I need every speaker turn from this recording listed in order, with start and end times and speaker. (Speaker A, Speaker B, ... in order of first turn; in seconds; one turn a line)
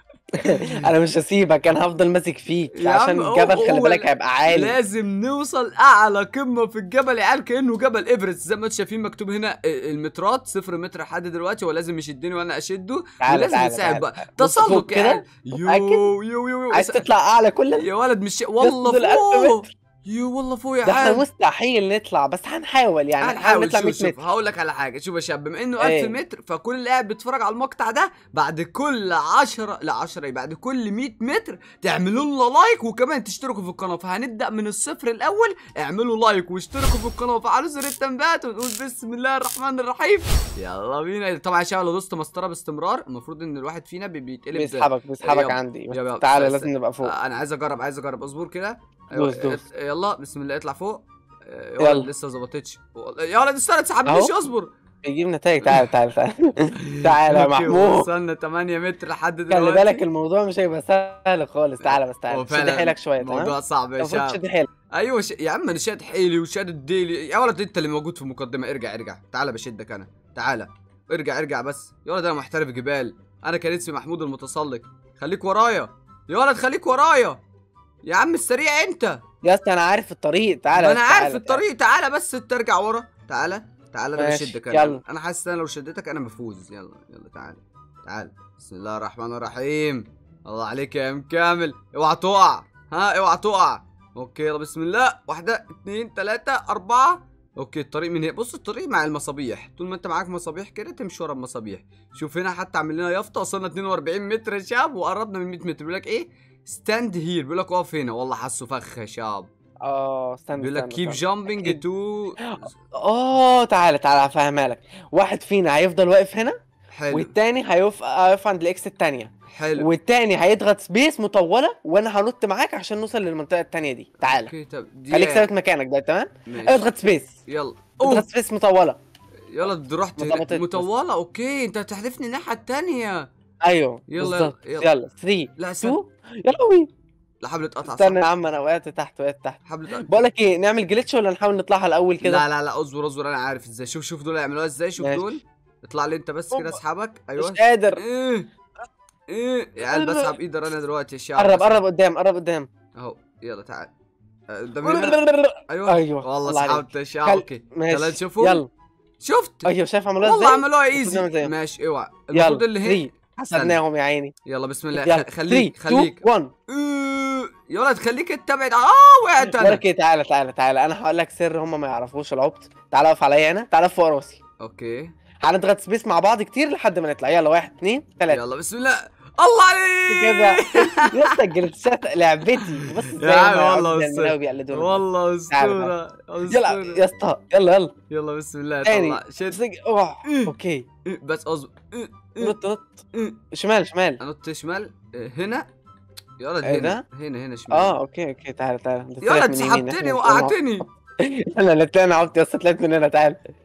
Speaker A: 0.3-4.7
Speaker B: 2.8-17.1
Speaker A: 13.2-16.1
Speaker A: 16.7-17.9
Speaker B: 17.8-21.2
Speaker A: 18.6-19.7
Speaker A: 20.9-24.2
Speaker B: 23.2-54.7
Speaker A: 25.8-26.2
Speaker A: 44.5-47.1
Speaker A: 49.2-49.6
Speaker A: 51.8-52.1
Speaker A: 54.1-54.3
Speaker A: 55.0-58.1
Speaker B: 56.8-60.0
Speaker A: 59.5-64.7
Speaker B: 61.8-64.4
Speaker B: 64.9-77.4
Speaker B: 78.1-79.2
Speaker A: 79.4-81.6
Speaker B: 80.8-109.5
Speaker A: 84.2-85.0
Speaker A: 109.8-111.8
Speaker B: 110.6-112.7
Speaker A: 112.5-116.6
Speaker B: 116.9-117.3
Speaker A: 117.1-124.5
Speaker B: 119.5-119.9
Speaker B: 124.2-125.5
Speaker A: 125.1-127.3
Speaker B: 126.5-126.9
Speaker B: 127.5-128.3
Speaker A: 128.0-129.0
Speaker B: 129.5-133.3
Speaker A: 130.2-130.9
Speaker A: 133.6-136.9
Speaker B: 134.1-134.9
Speaker B: 135.6-136.0
Speaker B: 137.4-138.2
Speaker A: 137.8-142.4
Speaker B: 139.7-140.2
Speaker B: 142.2-148.5
Speaker A: 145.0-145.3
Speaker A: 146.5-146.8
Speaker A: 147.4-148.0
Speaker B: 149.3-151.8
Speaker A: 149.8-150.3
Speaker A: 151.4-152.7
Speaker B: 152.9-153.9
Speaker B: 154.5-155.2
Speaker A: 154.8-158.7
Speaker B: 155.7-158.6
Speaker B: 159.2-163.8
Speaker A: 159.7-161.5
Speaker A: 162.3-164.3
Speaker B: 164.4-169.8
Speaker A: 164.9-166.5
Speaker A: 169.4-174.4
Speaker B: 174.6-175.1
Speaker A: 175.4-178.4
Speaker B: 178.3-181.4
Speaker A: 180.1-185.9
Speaker B: 182.6-187.0
Speaker A: 186.5-187.9
Speaker B: 188.1-189.6
Speaker A: 188.8-190.9
Speaker B: 190.2-190.5
Speaker B: 191.1-192.6
Speaker A: 192.4-193.0
Speaker A: 193.5-194.2
Speaker B: 194.2-195.7
Speaker B: 196.4-197.9
Speaker A: 196.6-197.0
Speaker A: 197.7-203.4
Speaker B: 199.2-200.9